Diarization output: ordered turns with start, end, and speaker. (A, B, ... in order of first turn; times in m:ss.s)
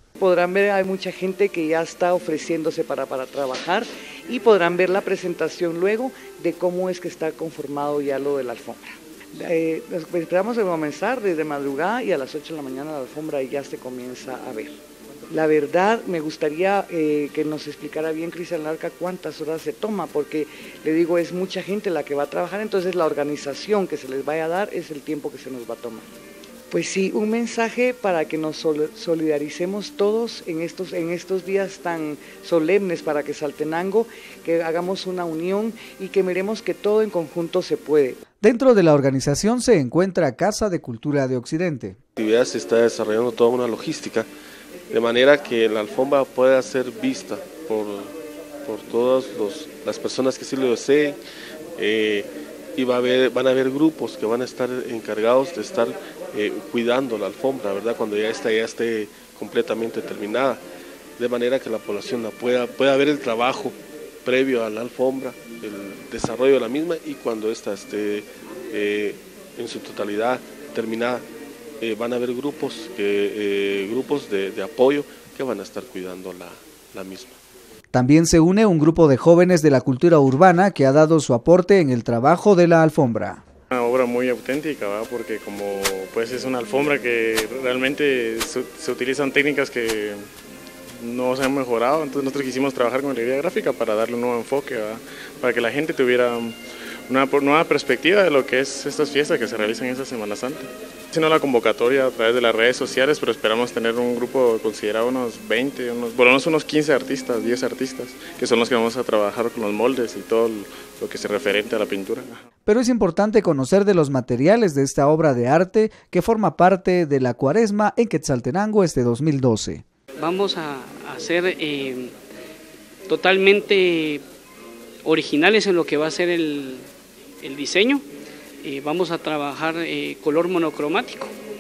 0:00.2-0:14.8 A
0:15.3-0:26.0 A
0:26.7-0:38.2 A
0:38.4-0:42.0 B
0:42.2-0:44.3 C
0:44.9-0:48.1 C
0:48.6-0:51.2 C
0:51.8-1:00.6 C
1:01.2-1:11.2 C
1:11.8-1:17.4 C
1:17.9-1:23.4 B
1:23.7-1:30.2 D
1:31.0-1:36.6 D
1:37.1-1:52.4 D
1:52.7-1:59.8 B
2:00.2-2:02.1 E
2:03.1-2:04.2 E
2:05.0-2:06.8 E
2:07.4-2:08.0 E
2:08.6-2:11.3 E